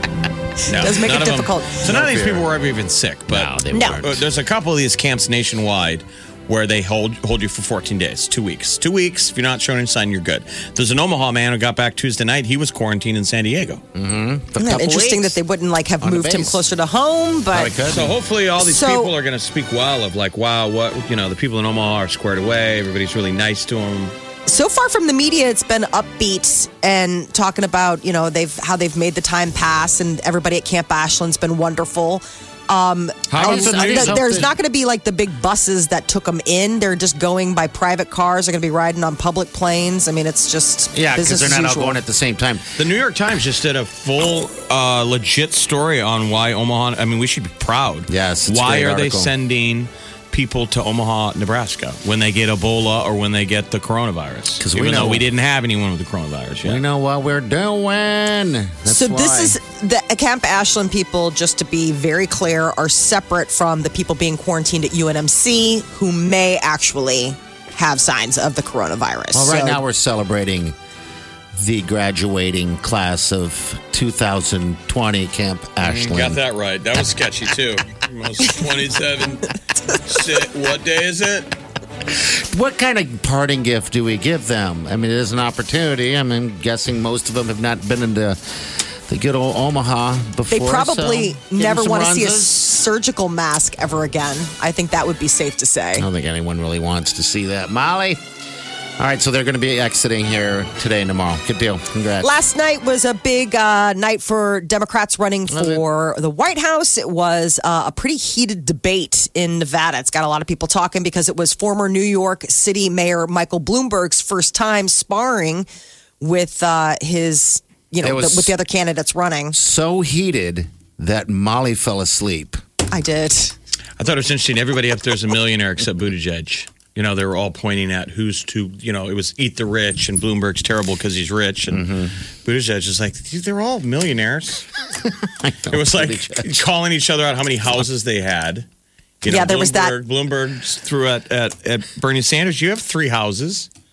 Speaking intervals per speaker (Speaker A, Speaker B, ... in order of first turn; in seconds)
Speaker A: 0.7-13.8, 17.9-24.1, 33.3-34.5, 42.8-56.8, 75.8-81.5, 124.0-134.7, 135.7-138.7, 139.2-143.7
Speaker B: 0.7-1.8, 3.7-4.0, 14.6-17.7, 18.6-19.1, 24.5-42.0, 58.9-69.8, 90.5-96.1, 102.2-115.7, 116.2-119.6, 122.9-123.5, 139.3-139.9
Speaker C: 1.8-2.5, 3.3-4.2, 13.9-15.4, 16.0-16.6, 17.5-18.1, 33.4-34.5, 40.9-42.7, 48.1-49.3, 54.6-55.2, 56.6-59.6, 69.3-70.8, 71.5-76.4, 82.1-88.4, 89.1-92.6, 96.0-98.2, 99.0-102.3, 105.5-105.8, 118.0-118.5, 119.5-122.6, 131.7-132.1, 135.0-136.7